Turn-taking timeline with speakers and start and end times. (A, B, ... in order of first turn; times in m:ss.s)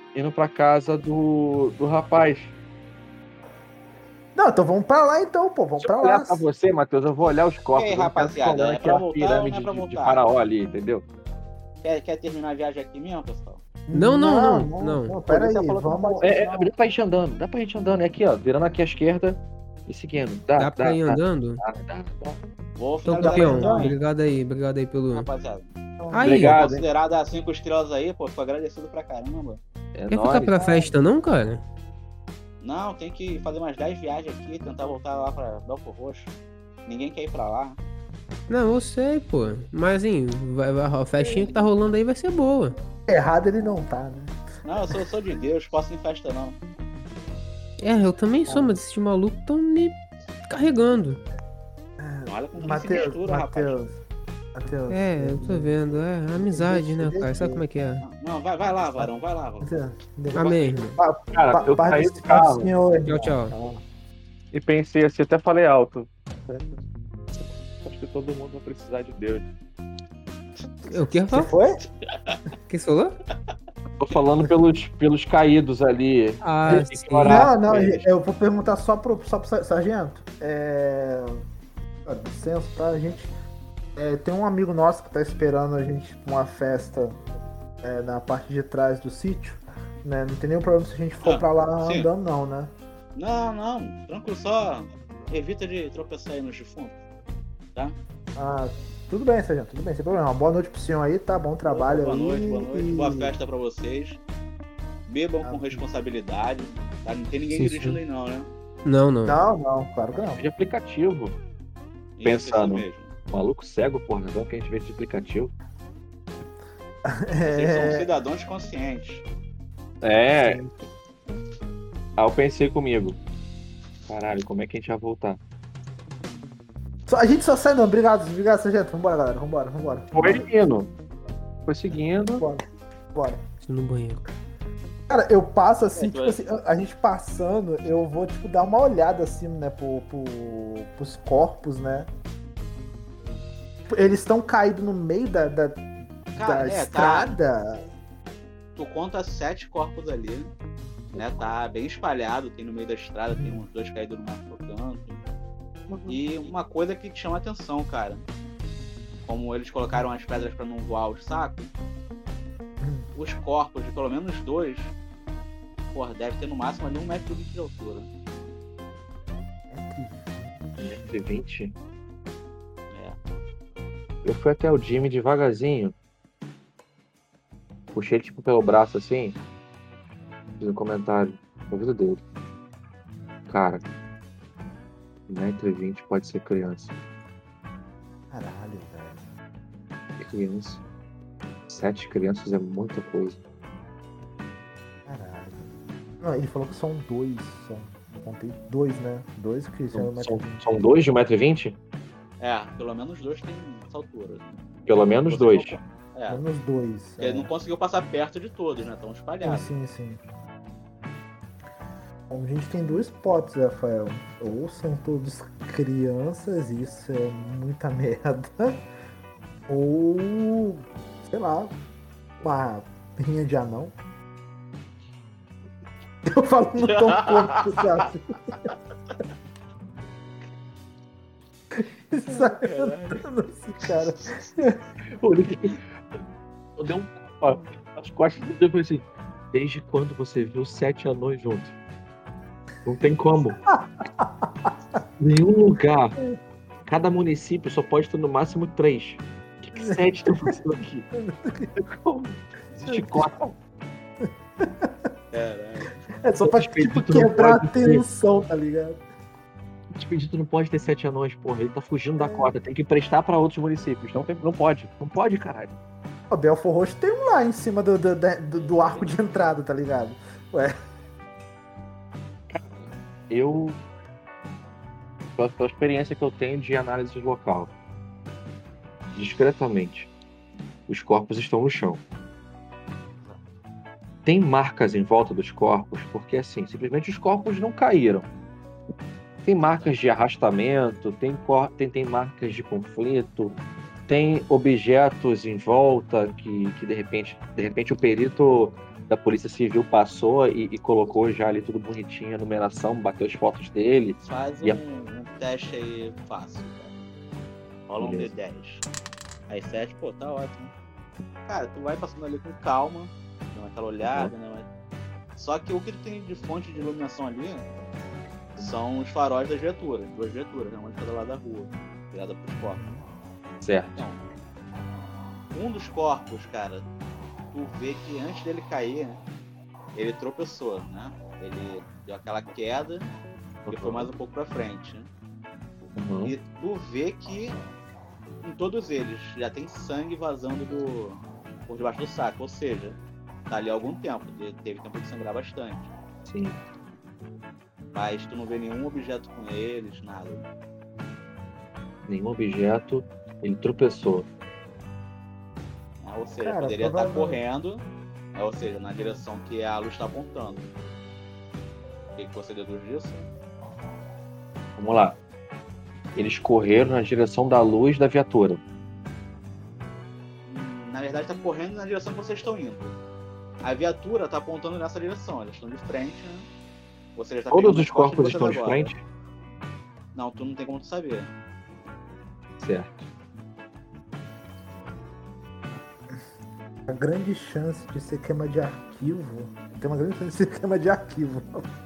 0:00.1-0:02.5 A
0:04.4-0:06.5 B
0:05.8-0:11.1 A
0:07.8-0:10.2 C
0:11.8-0:13.6 C
0:13.9-0:16.4 B
0:13.9-0:15.2 D
0:15.3-0:16.7 C
0:16.2-0:22.4 A
0:20.6-0:21.6 D
0:22.8-0:24.0 C
0:23.1-0:25.3 D
0:23.2-0:24.0 B
0:25.1-0:25.7 C
0:26.0-0:26.4 B
0:26.1-0:26.6 D
0:26.2-0:26.8 A
0:26.3-0:29.6 C
0:29.9-0:30.6 A
0:30.1-0:31.6 D
0:30.5-0:30.9 B
0:32.6-0:36.3 C
0:36.9-0:37.8 C
0:38.5-0:42.8 D
0:43.1-0:44.4 B
0:44.6-0:46.6 C
0:47.8-0:50.0 D
0:48.5-0:48.8 B
0:50.5-0:51.2 D
0:52.0-0:54.0 B
0:52.3-0:53.8 C
0:54.5-0:55.8 B
0:54.9-0:58.0 D
0:56.4-0:57.6 B
0:58.0-0:59.7 C
0:59.0-1:03.8 B
1:00.3-1:01.0 D
1:00.4-1:00.8 A
1:01.3-1:02.7 A
1:03.0-1:03.5 D
1:04.5-1:06.1 A
1:07.8-1:09.5 A
1:10.9-1:11.5 D
1:11.2-1:11.8 B
1:12.1-1:12.4 C
1:12.7-1:13.2 D
1:14.0-1:18.1 A
1:16.4-1:17.5 D
1:17.2-1:21.4 B
1:22.0-1:23.3 B
1:24.0-1:27.2 B
1:27.8-1:32.7 B
1:31.2-1:32.1 C
1:33.1-1:37.0 C
1:38.4-1:43.3 B
1:41.7-1:44.2 C
1:45.1-1:48.5 C
1:45.4-1:45.8 B
1:47.5-1:48.0 D
1:48.8-1:49.4 D
1:49.2-1:50.4 B
1:50.4-1:51.4 A
1:52.2-1:53.1 C
1:52.2-1:55.5 A
1:57.0-1:58.1 B
1:57.5-1:59.2 C
2:00.0-2:00.6 A
2:00.4-2:00.7 B
2:02.2-2:03.2 A
2:04.1-2:05.4 A
2:07.1-2:10.4 B
2:10.1-2:10.9 A
2:11.6-2:12.4 A
2:12.2-2:13.4 B
2:13.6-2:14.3 D
2:15.1-2:22.1 B
2:16.0-2:16.4 C
2:23.9-2:27.8 B
2:26.4-2:27.4 C
2:28.8-2:30.5 C
2:31.1-2:35.2 C
2:33.3-2:33.6 B
2:36.1-2:38.2 C
2:39.2-2:41.7 C
2:42.8-2:43.1 B
2:43.2-2:44.9 C
2:45.9-2:48.1 C
2:49.7-2:51.0 B
2:50.8-2:51.8 A
2:52.9-2:53.2 C
2:54.2-2:55.9 A
2:57.9-2:59.4 A
3:00.6-3:02.2 A
3:03.5-3:03.8 A
3:05.3-3:06.9 A
3:08.3-3:09.2 B
3:10.2-3:10.8 A
3:11.7-3:13.4 A
3:15.1-3:20.8 B
3:19.9-3:21.8 A
3:22.4-3:26.4 C
3:24.9-3:25.8 A
3:26.3-3:27.5 B
3:27.2-3:29.7 C
3:29.4-3:30.2 B
3:32.3-3:38.8 B
3:39.7-3:41.8 B
3:42.4-3:43.9 B
3:46.2-3:48.2 B
3:46.8-3:48.1 C
3:51.8-3:54.8 B
3:52.3-3:53.2 C
3:55.2-3:55.8 A
3:56.8-4:01.8 A
4:02.8-4:03.6 A
4:03.7-4:04.7 B
4:05.2-4:06.2 A
4:06.9-4:11.1 A
4:09.8-4:10.5 B
4:11.1-4:11.7 B
4:11.8-4:13.6 A
4:12.9-4:13.2 B
4:14.2-4:15.1 B
4:15.3-4:16.0 C
4:16.2-4:19.0 B
4:16.4-4:18.0 A
4:19.9-4:25.8 A
4:22.2-4:22.5 B
4:26.3-4:30.8 B
4:28.5-4:29.2 C
4:32.5-4:33.8 A
4:35.4-4:37.7 A
4:39.1-4:40.1 A
4:40.9-4:42.0 A
4:44.2-4:48.3 A
4:49.4-5:04.8 A
5:04.2-5:06.9 C
5:07.9-5:08.9 C
5:08.0-5:08.3 A
5:09.5-5:10.7 C
5:11.5-5:14.7 C
5:14.0-5:14.3 A
5:15.4-5:17.6 C
5:18.6-5:22.8 C
5:22.6-5:23.0 B
5:23.6-5:24.1 A
5:24.0-5:24.2 C
5:25.5-5:26.9 C
5:27.5-5:29.2 C
5:29.9-5:33.1 C
5:33.6-5:34.1 A
5:33.7-5:35.1 C
5:36.0-5:36.3 A
5:36.2-5:37.6 C
5:38.4-5:43.0 C
5:43.5-5:45.9 C
5:46.3-5:46.6 A
5:47.9-5:50.5 C
5:52.0-5:54.3 A
5:56.0-6:00.7 C
5:56.4-5:57.4 B
6:02.2-6:03.3 C
6:04.8-6:05.2 A
6:06.1-6:08.6 A
6:10.5-6:12.9 C
6:13.6-6:16.5 C
6:17.2-6:18.9 C
6:17.5-6:19.0 A
6:20.1-6:21.3 C
6:22.6-6:23.1 A
6:26.9-6:31.7 B